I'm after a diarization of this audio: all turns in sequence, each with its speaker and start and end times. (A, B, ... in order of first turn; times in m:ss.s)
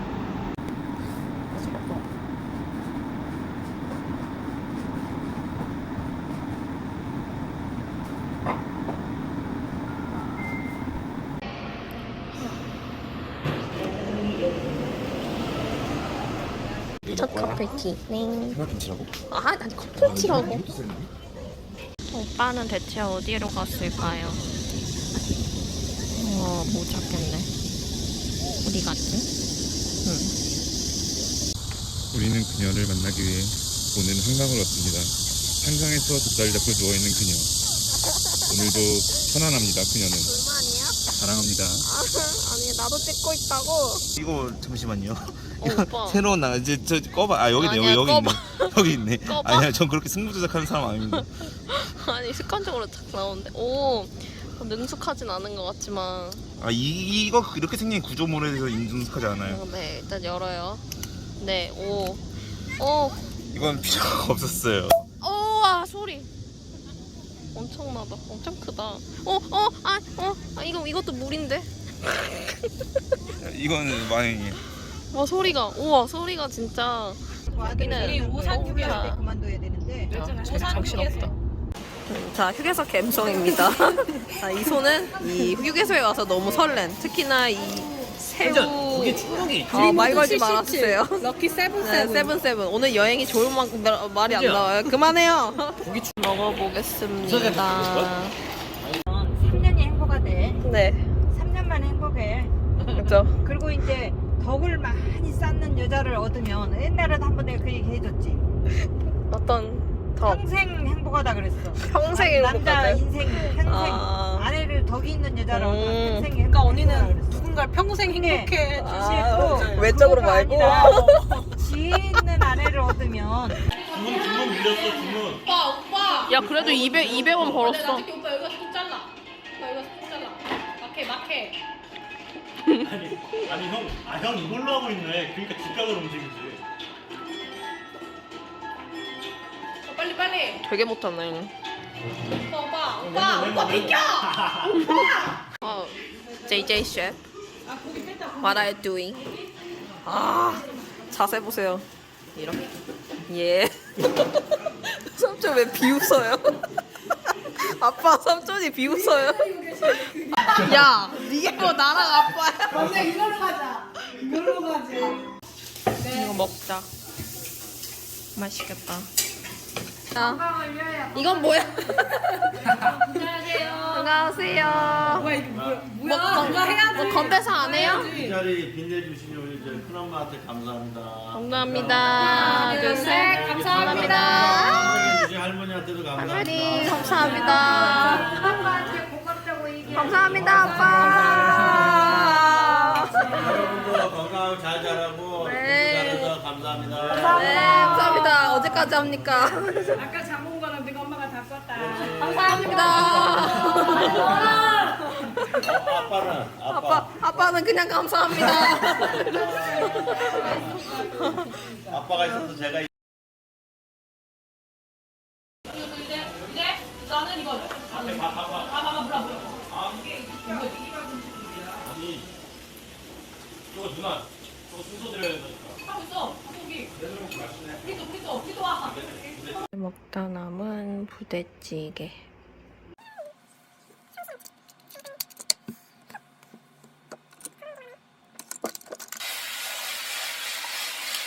0:01.6-0:01.9 A
0:17.0-0:17.6 B
0:17.0-0:18.6 A
0:18.5-0:19.1 B
0:19.3-0:20.6 A
0:20.0-0:21.1 B
0:22.1-0:24.4 A
0:26.1-0:27.5 A
0:28.6-0:29.3 A
0:30.0-0:30.3 A
0:32.1-0:37.5 B
0:38.2-0:38.8 A
0:38.5-0:40.3 B
0:40.2-0:41.0 A
0:41.1-0:41.8 B
0:41.8-0:44.0 A
0:44.1-0:51.2 B
0:45.6-0:46.2 A
0:47.6-0:49.7 A
0:51.1-0:56.4 A
0:56.6-0:59.6 B
0:59.4-1:00.8 A
1:01.4-1:02.2 A
1:02.8-1:03.2 A
1:03.5-1:05.0 B
1:05.2-1:06.3 A
1:07.5-1:12.7 A
1:13.4-1:14.6 B
1:15.1-1:19.3 A
1:17.5-1:20.1 C
1:18.0-1:19.0 D
1:20.1-1:21.3 D
1:20.1-1:21.3 A
1:22.1-1:38.4 A
1:28.4-1:29.8 B
1:29.7-1:32.3 D
1:39.4-1:40.6 C
1:40.6-1:41.1 A
1:41.3-1:42.5 C
1:42.9-1:43.4 A
1:43.4-1:48.4 C
1:49.3-1:50.4 A
1:50.2-1:57.5 C
1:51.7-1:54.5 A
1:55.5-1:56.3 A
1:56.5-1:58.9 D
1:58.0-2:03.6 C
1:58.8-2:01.4 A
1:59.6-1:59.8 D
2:03.7-2:11.6 D
2:03.9-2:05.4 E
2:06.2-2:08.1 A
2:12.8-2:16.6 E
2:19.9-2:20.6 D
2:20.6-2:21.5 A
2:22.5-2:24.3 D
2:23.1-2:23.9 E
2:24.7-2:27.2 A
2:27.7-2:28.4 D
2:28.4-2:29.3 A
2:30.0-2:32.7 A
2:33.3-2:36.6 A
2:37.5-2:43.3 A
2:43.0-2:43.4 D
2:44.0-2:44.6 A
2:46.0-2:46.9 A
2:48.3-2:49.1 A
2:50.1-2:55.4 A
2:50.7-2:51.0 D
2:52.7-2:54.1 D
2:55.1-2:58.4 D
2:55.2-2:55.9 E
2:56.0-2:58.1 A
2:57.6-3:08.1 E
3:01.3-3:05.2 A
3:02.1-3:04.8 D
3:06.2-3:09.1 A
3:06.7-3:09.0 D
3:09.9-3:13.6 A
3:10.2-3:11.7 E
3:10.6-3:11.2 D
3:13.3-3:17.4 E
3:15.4-3:16.3 A
3:17.2-3:20.0 A
3:20.1-3:24.9 D
3:21.7-3:23.5 E
3:22.3-3:25.7 A
3:24.0-3:24.5 E
3:25.6-3:27.5 E
3:26.7-3:31.5 A
3:29.4-3:29.8 E
3:30.1-3:31.3 D
3:31.9-3:32.8 E
3:36.0-3:41.1 D
3:37.9-3:38.6 E
3:41.7-3:42.2 E
3:43.7-3:45.8 E
3:45.8-3:46.9 D
3:47.0-3:48.0 E
3:47.8-3:49.5 D
3:49.2-3:49.5 E
3:49.7-3:52.3 A